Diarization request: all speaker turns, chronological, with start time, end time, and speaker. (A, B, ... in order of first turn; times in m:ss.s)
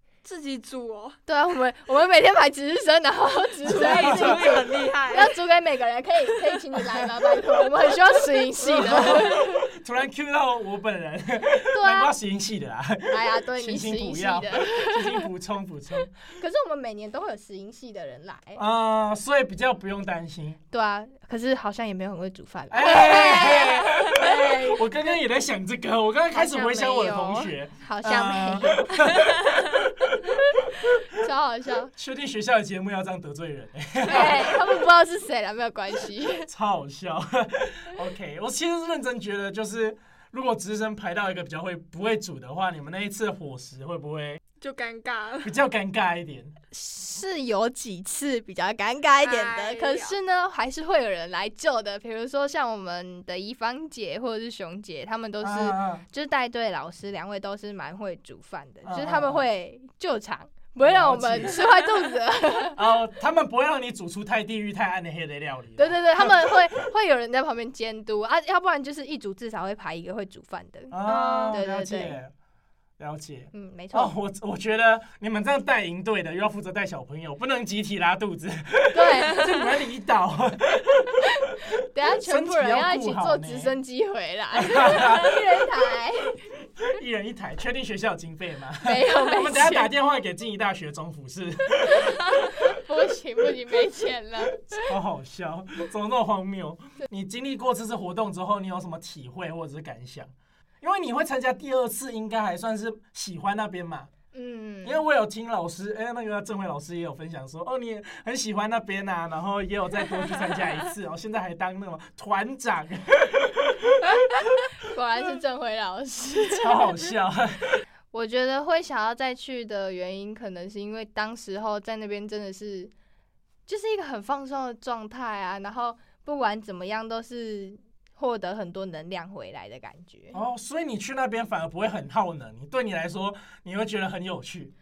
0:00.2-0:01.2 A
0:01.2-0:09.6 B
0:03.6-0:05.4 A
0:03.7-0:04.7 C
0:08.6-0:16.3 C
0:11.7-0:12.1 B
0:13.1-0:15.3 B
0:16.3-0:18.6 B
0:18.6-0:20.6 C
0:20.7-0:24.8 B
0:22.7-0:30.2 C
0:26.3-0:29.4 B
0:31.0-0:31.9 B
0:31.9-0:34.6 C
0:34.0-0:36.5 B
0:36.5-0:44.4 C
0:44.6-0:45.6 A
0:45.4-0:46.5 C
0:46.7-1:02.8 B
0:49.2-0:50.2 A
0:55.4-0:56.0 C
0:58.8-0:59.4 C
1:00.8-1:01.6 C
1:02.7-1:06.5 C
1:05.8-1:11.0 B
1:10.9-1:12.3 C
1:11.0-1:11.6 A
1:11.5-1:12.2 B
1:13.0-1:21.7 C
1:13.5-1:14.1 B
1:18.9-1:19.7 B
1:21.9-1:26.4 B
1:22.2-1:23.7 C
1:24.6-1:25.4 C
1:26.8-1:32.4 C
1:28.8-1:29.9 B
1:32.5-1:34.9 B
1:34.8-1:44.1 C
1:44.3-1:45.0 B
1:44.8-1:54.0 C
1:54.8-1:56.9 B
1:56.5-1:57.8 C
1:58.1-2:02.9 B
2:03.7-2:10.4 B
2:10.3-2:14.7 C